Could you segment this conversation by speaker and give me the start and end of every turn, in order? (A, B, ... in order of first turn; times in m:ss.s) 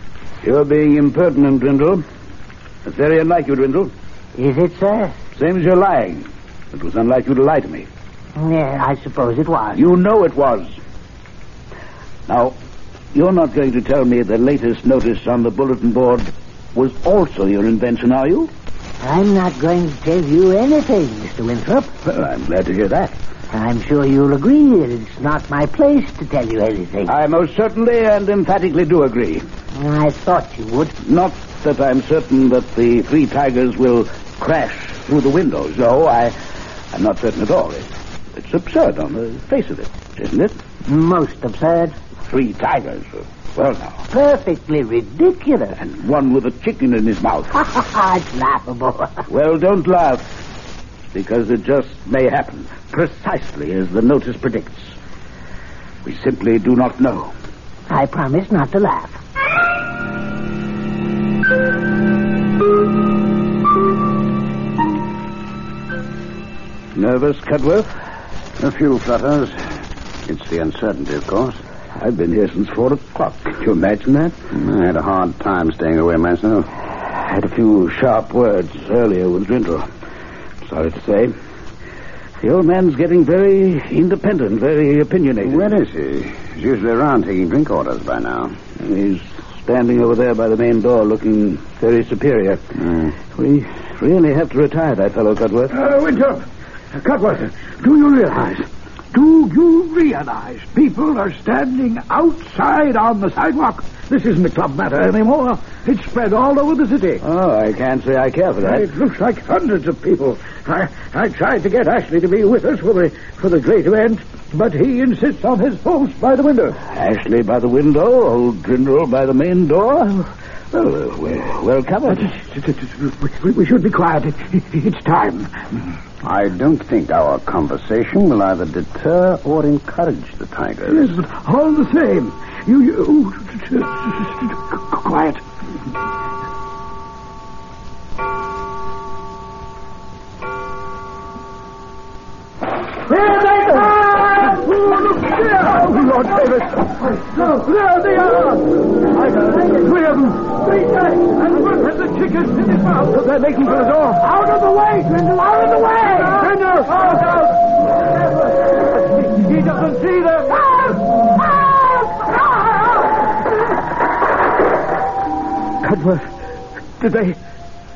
0:00.4-0:02.0 A
0:02.8-0:03.9 A
0:04.4-0:05.1 B
0:05.3-0:07.9 A
0:08.4-0:09.9 B
0:09.7-0:10.8 A
0:12.3-0:12.5 A
0:13.1-0:18.5 A
0:19.0-0:21.9 B
0:22.0-0:23.1 A
0:23.5-0:27.1 B
0:27.1-0:29.4 A
0:29.7-0:30.9 B
0:31.0-0:36.3 A
0:36.9-0:40.5 A
0:40.8-0:42.0 B
0:42.3-0:44.0 A
0:44.1-0:45.8 B
0:45.8-0:47.6 A
0:47.6-0:49.2 B
0:49.3-0:50.2 A
0:51.1-0:54.9 A
0:56.0-0:57.3 A
0:57.9-0:59.2 B
1:07.0-1:07.9 A
1:08.6-1:09.6 C
1:10.2-1:11.6 C
1:12.0-1:14.4 A
1:14.5-1:16.7 C
1:17.2-1:19.9 A
1:20.6-1:21.3 A
1:22.4-1:25.7 A
1:25.4-1:28.6 C
1:28.8-1:32.6 A
1:32.8-1:33.1 C
1:33.2-1:35.7 A
1:35.7-1:47.2 D
1:47.2-1:48.9 A
1:48.6-1:56.8 D
1:56.8-2:02.4 A
2:02.1-2:05.6 D
2:06.2-2:11.2 C
2:10.9-2:15.4 D
2:23.0-2:37.8 D
2:38.9-2:41.3 D
2:45.8-2:46.2 A
2:47.0-2:47.3 A